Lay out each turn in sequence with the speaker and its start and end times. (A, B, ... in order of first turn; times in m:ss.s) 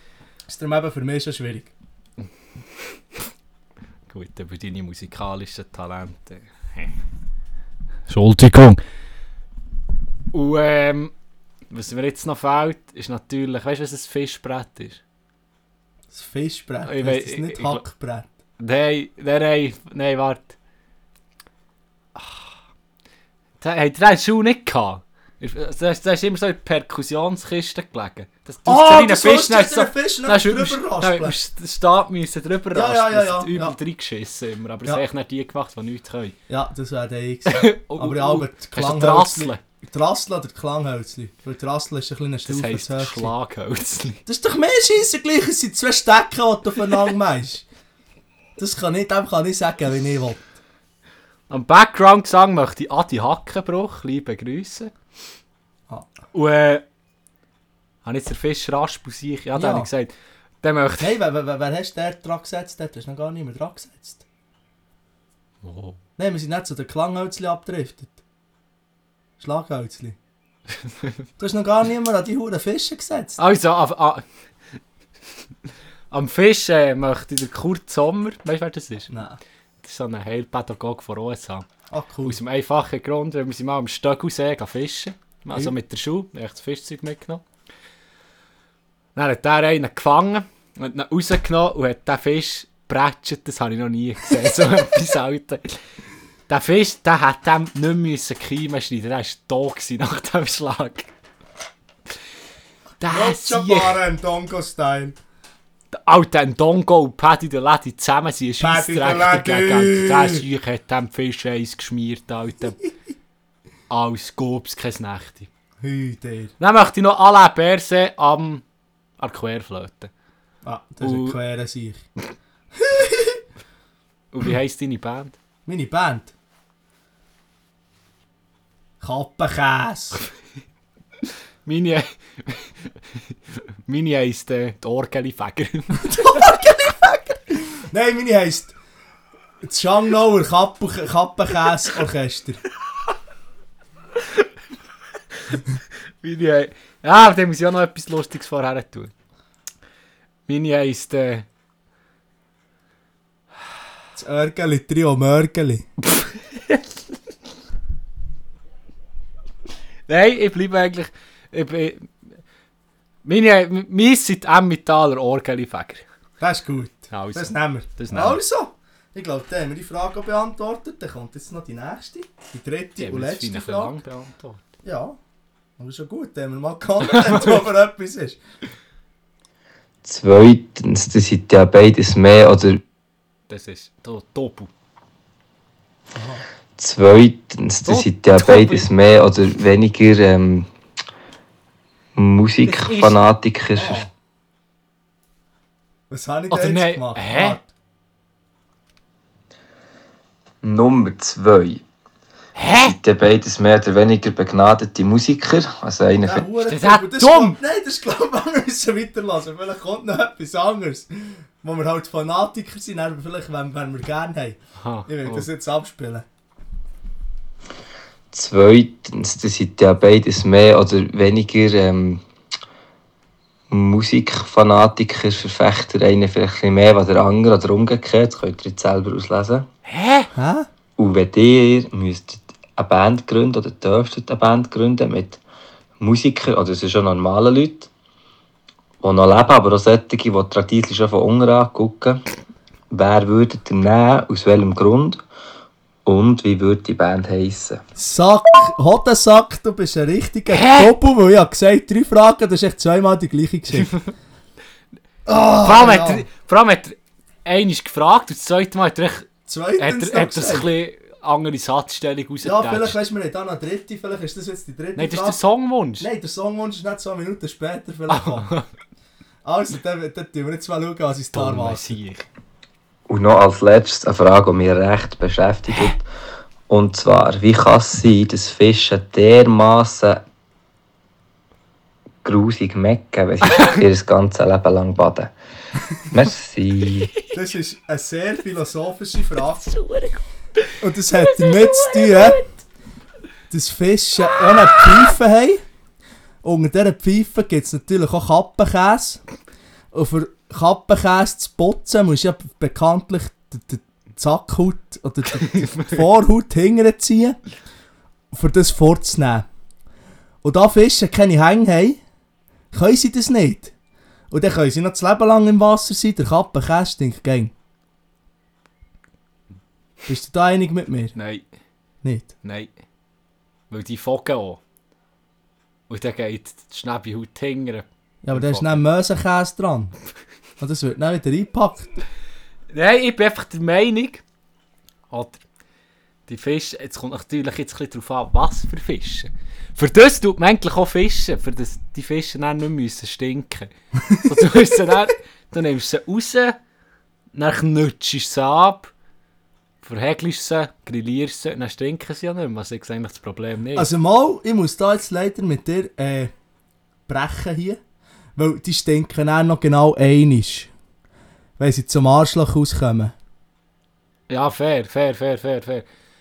0:00.5-0:01.7 A
0:04.1-0:06.9 B
0:08.1-0:08.8 B
0:10.3-0:11.1 B
0:11.7-0:15.0 B
0:16.1-0:18.3 A
0:16.8-0:17.8 B
0:18.6-0:20.6 B
0:22.2-0:22.4 B
0:23.6-0:36.4 B
0:28.6-0:31.4 A
0:32.7-0:33.8 A
0:36.5-0:43.3 A
0:37.5-0:39.6 B
0:42.4-0:44.2 B
0:44.3-0:47.6 A
0:48.6-0:50.4 A
0:51.5-0:54.9 B
0:56.3-0:56.8 B
0:58.0-1:01.2 B
0:59.6-0:59.9 A
1:01.0-1:04.2 A
1:05.6-1:06.0 B
1:06.2-1:08.2 A
1:09.4-1:10.2 A
1:10.8-1:11.1 B
1:11.4-1:13.4 A
1:13.4-1:14.2 B
1:16.1-1:19.1 B
1:19.1-1:19.4 A
1:19.8-1:21.7 B
1:21.9-1:22.4 A
1:22.2-1:27.4 B
1:29.1-1:35.8 B
1:36.5-1:41.1 B
1:43.0-1:44.0 B
1:43.1-1:45.2 A
1:45.9-1:52.8 B
1:48.6-1:50.4 A
1:53.9-1:55.5 B
1:55.8-1:56.5 A
1:56.6-1:58.6 B
1:59.2-2:00.1 B
2:00.6-2:02.0 A
2:01.0-2:01.4 B
2:02.8-2:03.4 A
2:04.3-2:05.4 B
2:05.6-2:06.3 A
2:09.0-2:10.2 A
2:11.6-2:16.5 B
2:16.0-2:18.7 A
2:19.6-2:22.6 A
2:24.2-2:24.5 B
2:26.2-2:29.1 B
2:30.5-2:31.4 B
2:34.2-2:35.9 A
2:36.1-2:36.8 B
2:40.1-2:42.1 B
2:43.2-2:46.0 B
2:46.4-2:54.0 A
2:47.1-2:48.4 B
2:53.0-2:54.6 B
2:54.8-2:55.2 A
2:55.8-2:58.4 A
2:57.0-2:57.6 B
3:00.0-3:02.8 C
3:03.5-3:04.7 B
3:06.1-3:06.4 A
3:06.8-3:10.7 C
3:07.9-3:08.9 B
3:12.2-3:14.0 C
3:12.6-3:13.2 B
3:13.8-3:14.1 A
3:16.1-3:17.7 A
3:16.5-3:17.6 B
3:20.6-3:21.8 C
3:22.6-3:22.9 B
3:22.7-3:26.5 C
3:26.2-3:36.2 A
3:26.6-3:27.6 B
3:34.8-3:35.5 B
3:38.3-3:42.2 C
3:43.7-3:49.7 C
3:49.9-3:50.3 B
3:50.3-3:50.7 A
3:51.0-3:55.4 C
3:56.0-3:57.9 C
3:59.0-4:02.2 C
4:02.9-4:05.2 C
4:06.1-4:07.8 C
4:08.0-4:13.9 A
4:10.5-4:10.9 B
4:13.8-4:14.1 B
4:15.3-4:16.2 A
4:15.6-4:23.0 B
4:19.5-4:20.7 A
4:22.4-4:25.4 A
4:25.0-4:26.1 B
4:26.0-4:28.5 A
4:28.1-4:28.7 B
4:29.4-4:31.9 A
4:31.3-4:32.2 B
4:33.1-4:36.0 C
4:36.7-4:40.2 C
4:42.2-4:45.3 C
4:43.5-4:43.8 B
4:46.0-4:47.1 C
4:47.3-4:49.7 A
4:49.7-4:50.2 B
4:50.8-4:52.4 A
4:51.2-4:52.4 B
4:53.5-4:55.6 A
4:56.4-4:59.2 A
4:59.9-5:07.4 A
5:05.3-5:06.0 B
5:08.3-5:09.4 A
5:10.4-5:12.0 A
5:12.7-5:13.7 A
5:14.3-5:17.5 A
5:20.1-5:21.1 A
5:21.1-5:21.4 B
5:22.0-5:22.3 A
5:22.4-5:22.7 B
5:23.7-5:24.6 B
5:25.9-5:28.8 B
5:28.2-5:29.9 A
5:30.6-5:31.9 A
5:32.7-5:34.2 B
5:35.1-5:35.4 B
5:36.3-5:46.6 B
5:44.1-5:44.4 A
5:47.3-5:48.9 B
5:49.8-5:53.9 B
5:53.8-5:56.3 A
5:57.1-5:57.8 A
5:58.4-6:00.7 A
6:01.6-6:03.1 A
6:04.3-6:05.9 B